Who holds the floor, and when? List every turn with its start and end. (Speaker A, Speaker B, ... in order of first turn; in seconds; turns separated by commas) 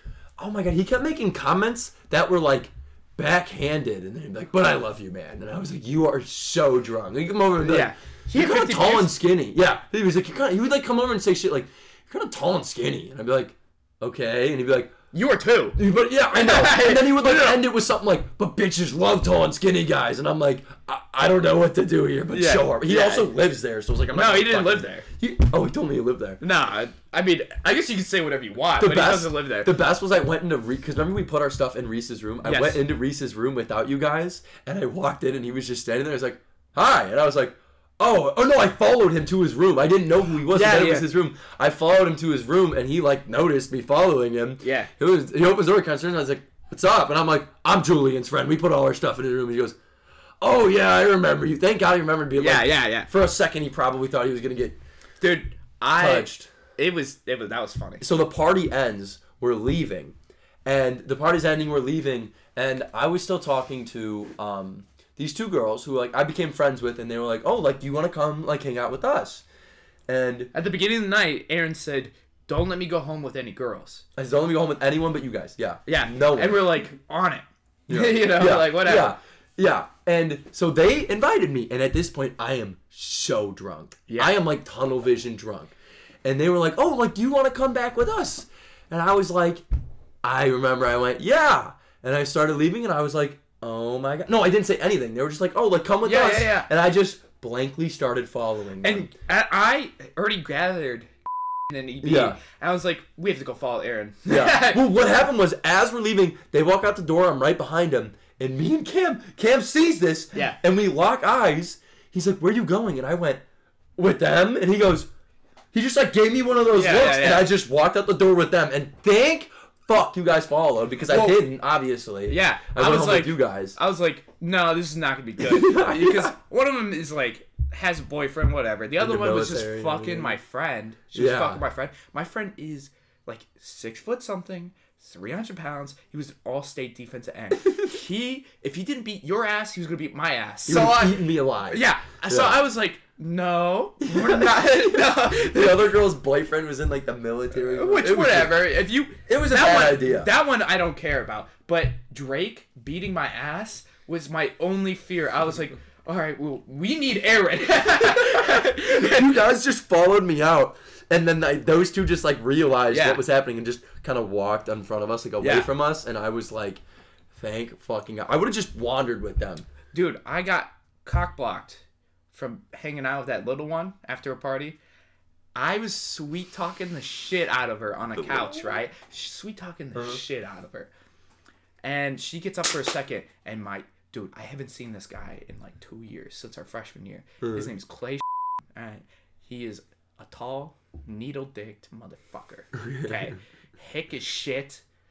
Speaker A: 0.4-14.9, Speaker B: 7.6-9.1, Speaker B: 15.1-17.7, Speaker A: 15.8-26.4, Speaker B: 22.3-23.3, Speaker B: 24.1-25.1, Speaker B: 26.4-29.7, Speaker A: 28.8-49.8, Speaker B: 32.4-32.8, Speaker B: 40.5-41.1, Speaker B: 44.6-44.9, Speaker A: 50.4-54.8, Speaker B: 52.4-53.1, Speaker B: 55.2-58.1, Speaker A: 56.0-56.5, Speaker A: 58.0-69.4, Speaker A: 70.1-70.5, Speaker B: 70.5-74.0, Speaker A: 74.2-76.8, Speaker B: 75.9-79.2, Speaker A: 77.9-85.7, Speaker B: 84.1-84.4, Speaker A: 86.2-89.7, Speaker A: 90.2-99.1, Speaker B: 96.0-96.7, Speaker B: 98.8-101.1, Speaker B: 101.7-104.8, Speaker A: 102.0-102.4, Speaker A: 104.3-113.4, Speaker B: 110.3-110.6, Speaker A: 114.0-115.1, Speaker A: 115.7-123.8, Speaker B: 116.7-117.5, Speaker B: 121.1-121.4, Speaker B: 122.3-145.9, Speaker A: 125.4-126.3, Speaker A: 129.0-130.4, Speaker A: 131.1-131.6, Speaker A: 140.7-142.6, Speaker A: 144.0-148.7, Speaker B: 147.5-159.3, Speaker A: 149.3-150.3, Speaker A: 158.0-166.8, Speaker B: 162.9-163.2, Speaker B: 165.4-165.7, Speaker A: 167.3-169.7, Speaker B: 169.9-174.8, Speaker B: 175.6-180.9, Speaker A: 178.2-178.7, Speaker A: 179.9-180.2, Speaker B: 181.8-194.8, Speaker A: 187.4-187.7, Speaker A: 192.8-193.3